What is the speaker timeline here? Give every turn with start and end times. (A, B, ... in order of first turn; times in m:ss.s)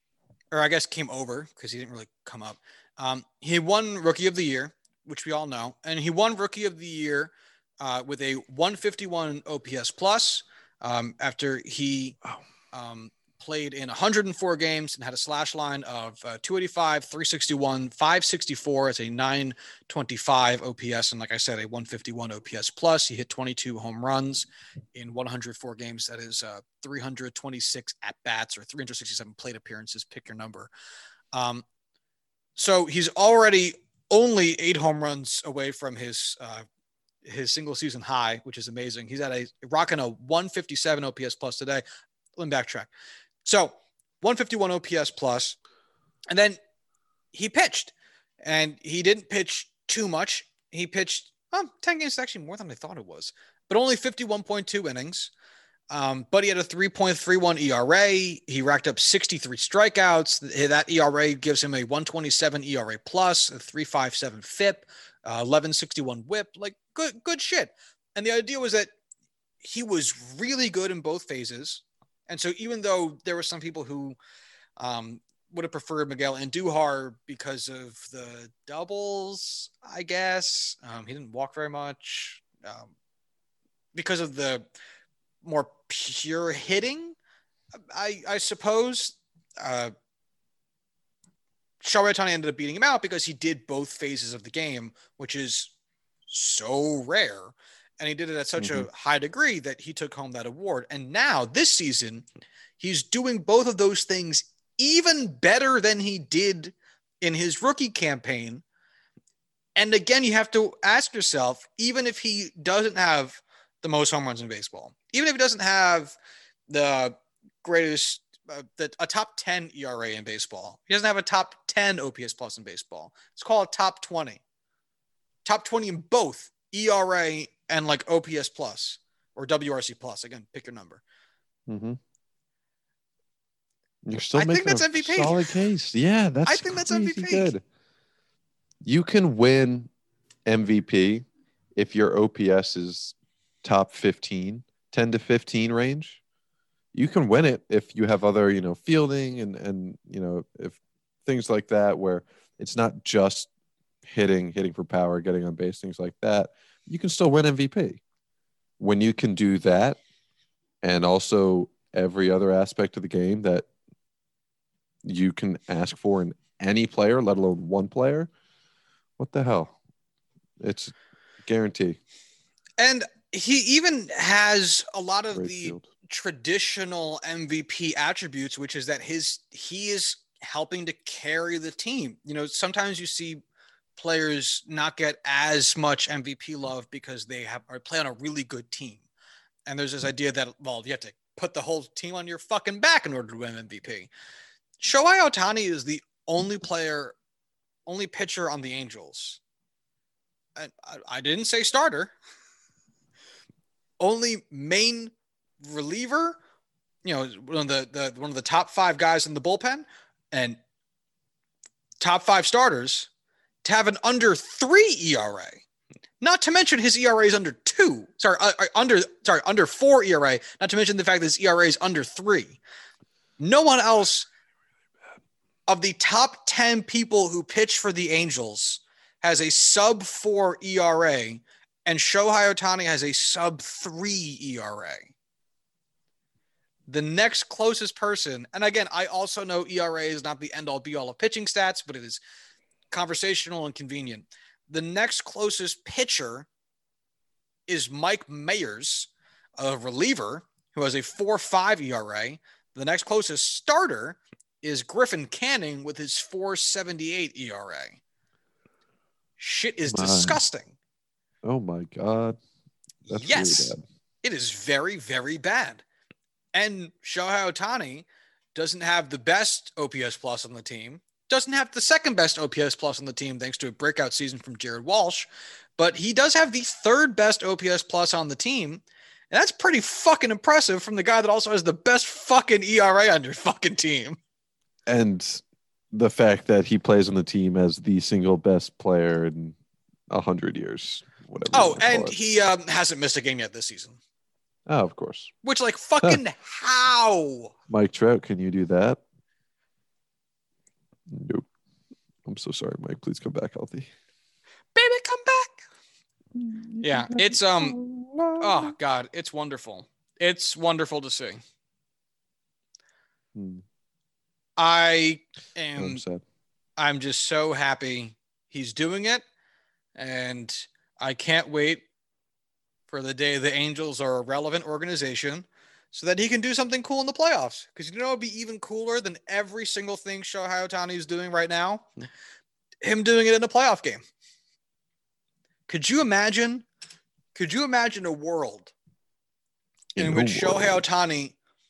0:00.5-0:12.2 A
0:12.7-0:30.7 A
0:31.3-0:31.6 A
0:32.6-0:36.6 A
0:37.2-0:41.8 A
0:42.4-0:42.9 A
0:43.4-0:45.6 A
0:46.3-0:46.6 A
0:47.3-0:55.3 A
0:55.9-1:08.9 A
1:09.6-1:14.2 A
1:14.8-1:22.9 A
1:23.9-1:24.7 A
1:25.4-1:27.2 A
1:27.9-1:29.9 A
1:31.8-1:35.7 A
1:36.3-1:42.3 A
1:38.6-1:38.9 B
1:42.8-1:48.6 A
1:49.8-1:56.2 A
1:56.7-2:04.4 A
2:05.4-2:11.0 A
2:11.7-2:12.0 B
2:14.1-2:17.6 B
2:14.4-2:15.5 A
2:16.5-2:17.5 A
2:18.8-2:19.9 B
2:20.5-2:21.2 B
2:21.8-2:26.2 B
2:26.9-2:33.5 B
2:34.0-2:38.0 B
2:38.8-2:40.0 B
2:40.8-2:43.7 B
2:45.0-2:48.3 B
2:49.2-2:49.8 B
2:50.6-2:52.0 B
2:52.8-3:03.4 A
2:55.3-2:55.9 B
3:04.0-3:09.1 A
3:09.7-3:14.1 A
3:14.8-3:17.2 A
3:17.9-3:19.4 A
3:20.6-3:22.1 A
3:24.0-3:26.4 A
3:27.0-3:30.6 A
3:32.0-3:33.1 A
3:33.6-3:35.6 A
3:36.2-3:42.6 A
3:43.4-3:44.3 A
3:45.7-3:55.1 A
3:56.9-4:02.2 A
4:02.9-4:06.5 A
4:07.7-4:18.0 A
4:19.4-4:20.8 A
4:19.9-4:20.4 B
4:21.4-4:22.4 B
4:23.1-4:23.8 B
4:23.1-4:25.8 A
4:26.5-4:44.2 A
4:44.9-4:49.6 B
4:50.1-4:52.2 B
4:51.5-4:54.0 A
4:54.7-4:55.3 B
4:55.4-4:57.5 A
4:57.7-4:59.0 B
5:01.1-5:01.5 B
5:02.2-5:03.9 B
5:04.8-5:05.6 A
5:06.4-5:08.7 B
5:06.8-5:07.8 A
5:08.4-5:11.4 A
5:13.4-5:13.6 B
5:14.6-5:16.0 A
5:15.8-5:16.2 B
5:16.8-5:19.2 A
5:20.0-5:21.9 A
5:22.9-5:31.9 A
5:32.8-5:34.0 A
5:35.7-5:36.7 A
5:37.3-5:38.7 A
5:40.0-5:40.8 B
5:40.0-5:41.4 A